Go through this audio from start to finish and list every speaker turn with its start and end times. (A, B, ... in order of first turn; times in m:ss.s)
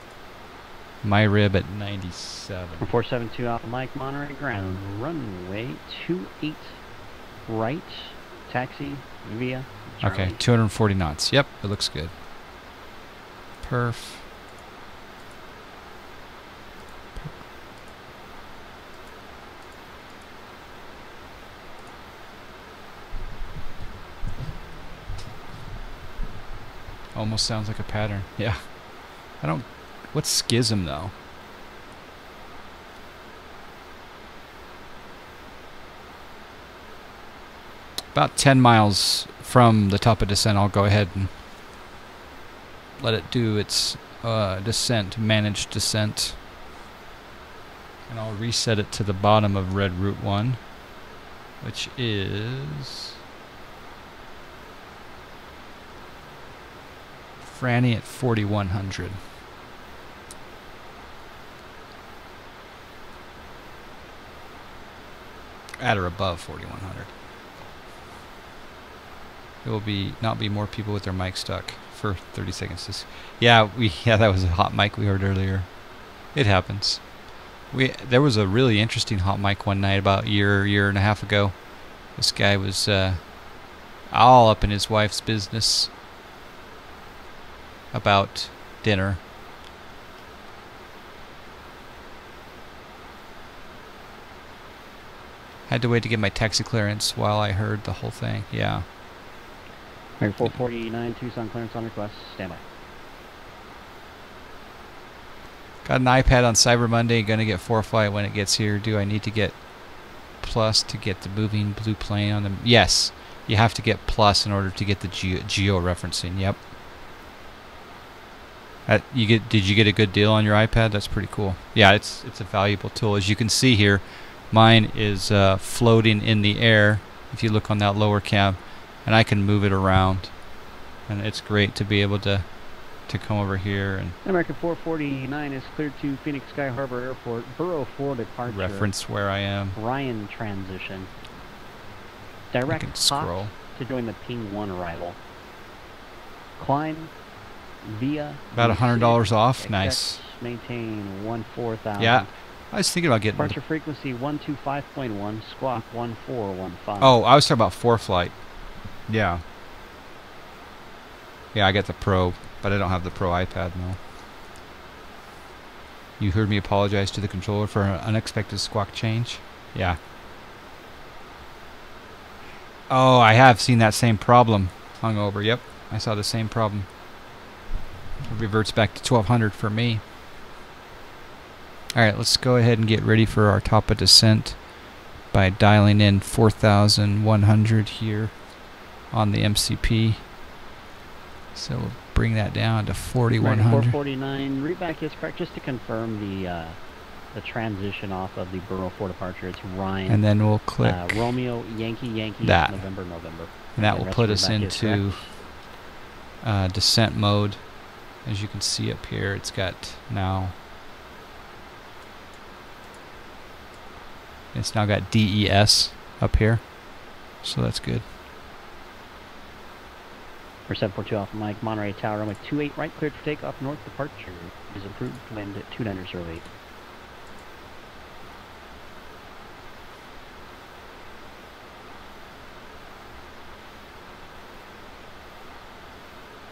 0:01.0-0:02.9 A
0:02.8-0:06.8 B
0:07.4-0:10.4 B
0:10.0-0:12.1 A
0:13.6-0:14.3 A
0:27.1-0:31.1 A
0:38.1-0:41.4 A
0:43.0-0:46.4 A
0:48.1-0:50.8 A
0:51.6-0:53.1 A
0:57.4-0:59.2 A
1:05.8-1:07.2 A
1:09.6-1:23.5 A
1:24.0-1:25.9 A
1:27.9-1:29.2 A
1:35.7-1:38.9 A
1:40.2-1:42.6 B
1:45.8-1:56.6 A
1:58.9-2:10.5 A
2:11.0-2:14.2 A
2:14.2-2:18.9 B
2:18.5-2:19.8 A
2:19.7-2:21.1 B
2:22.5-2:25.2 B
2:22.7-2:23.5 A
2:26.6-2:27.1 B
2:27.8-2:32.3 B
2:28.5-2:30.2 A
2:32.0-2:33.6 A
2:33.3-2:37.2 B
2:37.0-2:39.4 A
2:41.5-2:44.0 A
2:46.2-2:50.0 A
2:52.9-2:56.9 A
2:58.2-3:00.0 A
3:01.9-3:10.3 A
3:11.5-3:14.0 A
3:13.4-3:16.8 B
3:17.3-3:25.4 B
3:20.1-3:21.2 A
3:22.4-3:22.9 A
3:23.8-3:25.4 A
3:26.4-3:30.6 A
3:34.5-3:38.1 A
3:40.7-3:46.5 B